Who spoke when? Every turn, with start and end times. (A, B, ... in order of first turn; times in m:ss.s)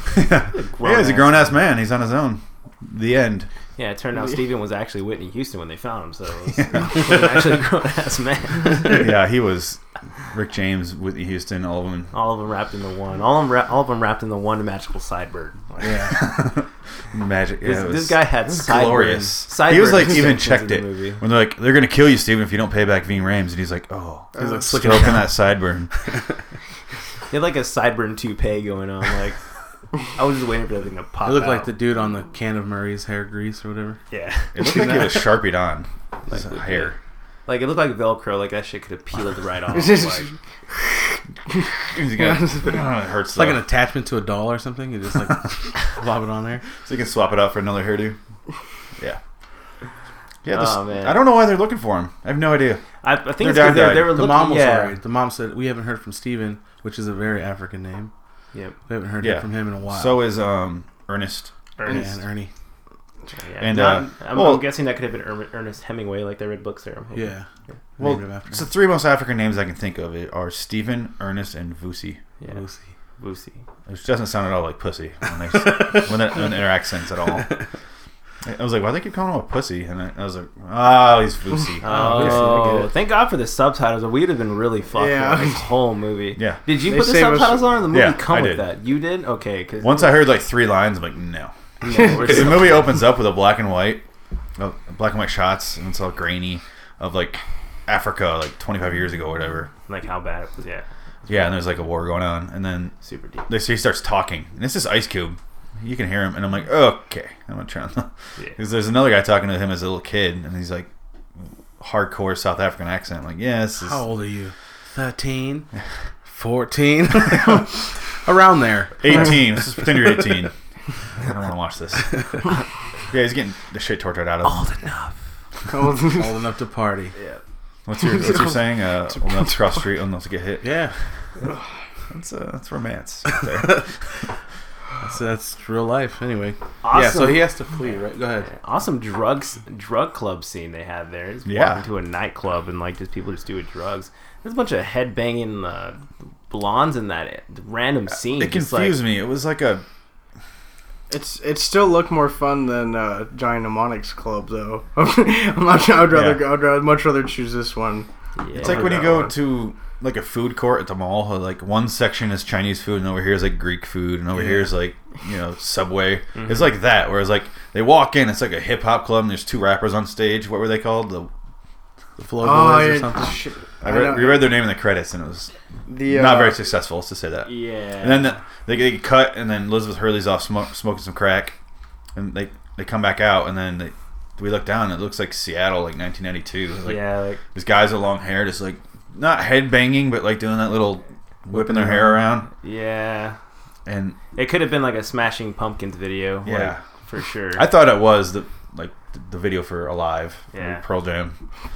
0:00.1-0:03.5 A
0:00.5-0:01.6 B
0:03.8-0:09.0 B
0:06.6-0:07.1 A
0:08.8-0:12.1 A
0:12.1-0:15.6 B
0:15.8-0:16.2 C
0:16.1-0:25.9 A
0:17.6-0:21.2 B
0:24.4-0:25.3 C
0:27.3-0:29.4 B
0:30.0-0:31.7 B
0:31.2-0:34.0 C
0:34.1-0:35.1 B
0:34.5-0:37.0 A
0:34.6-0:35.2 C
0:36.3-0:37.0 B
0:37.5-0:40.3 B
0:39.7-0:40.3 D
0:41.5-0:42.8 D
0:41.9-0:43.6 A
0:43.4-0:46.7 C
0:46.8-0:48.2 A
0:50.4-0:52.8 A
0:50.5-0:51.2 B
0:53.0-0:55.0 B
0:53.4-0:54.2 A
0:53.9-0:58.1 C
0:58.9-1:00.2 C
0:59.2-1:01.5 A
1:01.8-1:02.1 B
1:01.9-1:02.5 C
1:03.4-1:07.3 B
1:03.6-1:04.7 A
1:07.1-1:08.6 C
1:08.0-1:12.2 A
1:12.5-1:12.8 C
1:13.2-1:13.6 B
1:13.9-1:17.5 A
1:18.4-1:22.5 A
1:21.8-1:30.3 B
1:21.8-1:22.9 C
1:24.9-1:25.7 D
1:26.9-1:27.8 D
1:27.9-1:28.6 A
1:29.8-1:34.0 A
1:31.8-1:33.0 B
1:34.6-1:39.7 A
1:39.9-1:41.5 B
1:41.3-1:42.9 A
1:43.0-1:43.5 B
1:43.5-1:50.9 A
1:51.8-1:54.0 A
1:53.8-1:55.7 C
1:56.2-1:59.3 C
1:59.0-2:00.5 A
2:01.2-2:02.2 A
2:03.1-2:04.7 A
2:04.4-2:05.2 B
2:05.7-2:06.4 D
2:06.0-2:07.2 C
2:07.2-2:07.4 B
2:07.9-2:10.9 A
2:10.6-2:10.9 C
2:12.1-2:13.9 A
2:15.0-2:18.5 C
2:16.8-2:17.5 B
2:18.5-2:29.0 B
2:21.5-2:21.8 A
2:28.4-2:29.8 A
2:31.1-2:38.1 D
2:36.1-2:36.5 A
2:38.4-2:39.3 B
2:38.6-2:39.3 D
2:38.6-2:51.3 A
2:44.4-2:44.7 C
2:46.4-2:46.7 B
2:52.2-2:53.4 C
2:52.4-2:54.6 D
2:53.8-2:55.5 A
2:55.9-2:56.6 D
2:56.0-3:01.6 A
2:57.4-2:58.4 B
3:02.2-3:12.5 A
3:06.8-3:07.4 B
3:11.5-3:12.2 C
3:12.5-3:13.4 B
3:13.9-3:14.2 A
3:14.3-3:17.7 B
3:16.4-3:16.8 A
3:17.6-3:21.4 A
3:20.5-3:20.8 B